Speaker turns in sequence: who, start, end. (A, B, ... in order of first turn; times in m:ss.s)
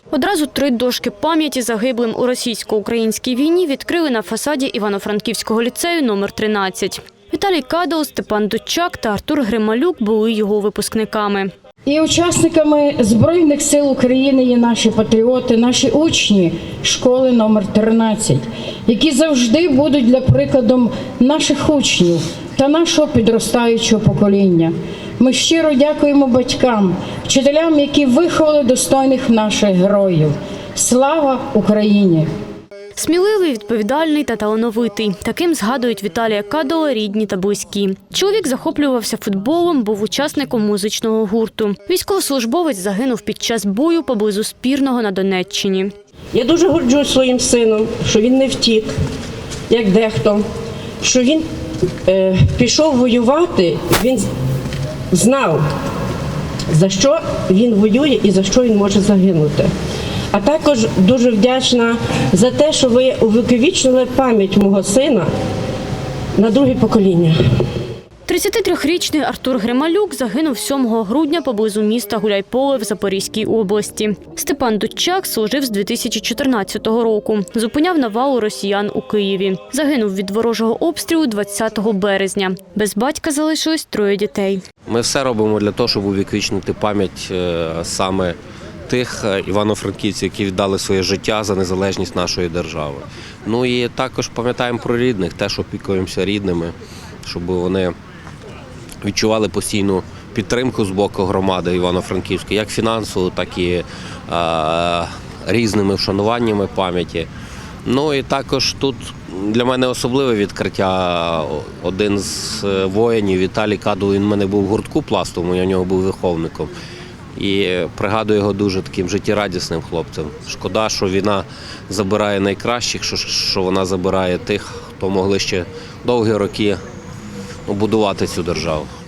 0:00.1-0:11.5 A
0:11.9-0:32.3 B
0:33.0-0:45.9 A
0:46.3-0:48.9 C
0:49.7-0:50.4 C
0:51.0-0:51.4 C
0:52.1-0:54.3 C
0:55.1-0:55.6 C
0:56.7-0:59.7 C
1:00.3-1:05.3 C
1:06.4-1:07.4 C
1:08.3-1:24.6 A
1:24.9-1:28.4 D
1:28.9-1:37.9 D
1:39.0-1:47.3 D
1:47.9-1:56.7 D
1:57.4-2:06.8 D
2:07.7-2:08.9 D